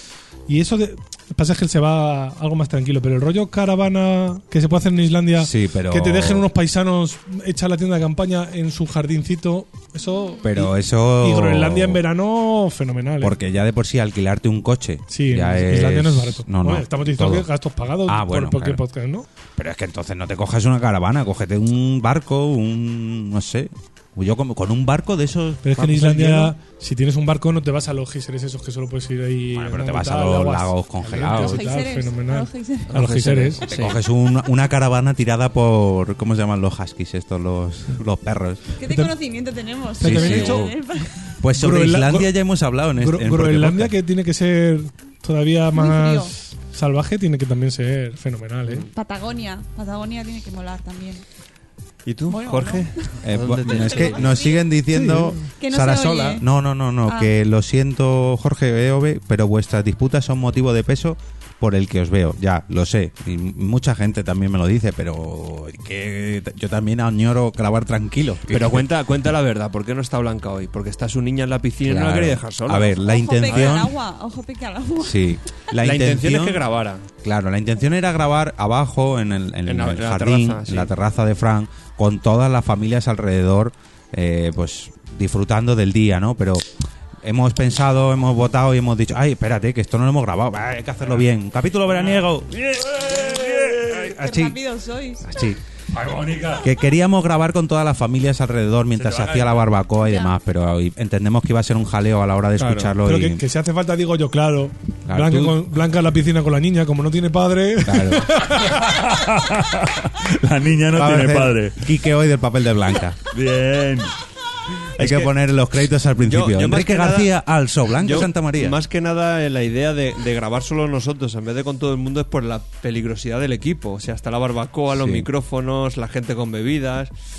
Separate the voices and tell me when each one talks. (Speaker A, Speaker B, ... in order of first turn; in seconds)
Speaker A: 0.5-13.4, 15.1-19.3, 25.6-33.6, 38.9-39.1, 40.0-40.7, 41.5-42.3, 43.0-48.9, 54.9-55.5, 103.0-108.9
Speaker B: 5.4-6.5, 10.4-12.0, 13.2-17.5, 18.1-18.8, 19.6-26.5, 29.5-31.6, 33.7-38.7, 40.0-40.8, 41.4-44.0, 53.2-68.9, 71.8-74.0, 75.0-76.6, 77.2-86.7, 87.2-92.5, 93.9-94.6, 95.2-95.6, 96.6-103.4, 105.1-105.7, 107.8-108.3, 110.9-113.2, 115.0-118.8, 124.9-125.3
Speaker C: 31.3-33.1, 38.8-41.3, 45.7-46.3, 48.9-51.2, 52.3-53.1, 53.7-54.8, 55.6-56.5, 57.1-57.3, 73.0-75.4, 93.2-95.3, 100.0-100.3
Speaker D: 32.9-34.0, 52.1-54.4, 68.5-73.8, 75.8-77.1, 79.7-80.9, 102.6-102.9, 115.0-115.3, 116.2-117.3, 118.0-127.1
Speaker E: 91.9-94.0, 95.9-96.7, 99.0-99.7, 108.6-111.9, 113.3-114.1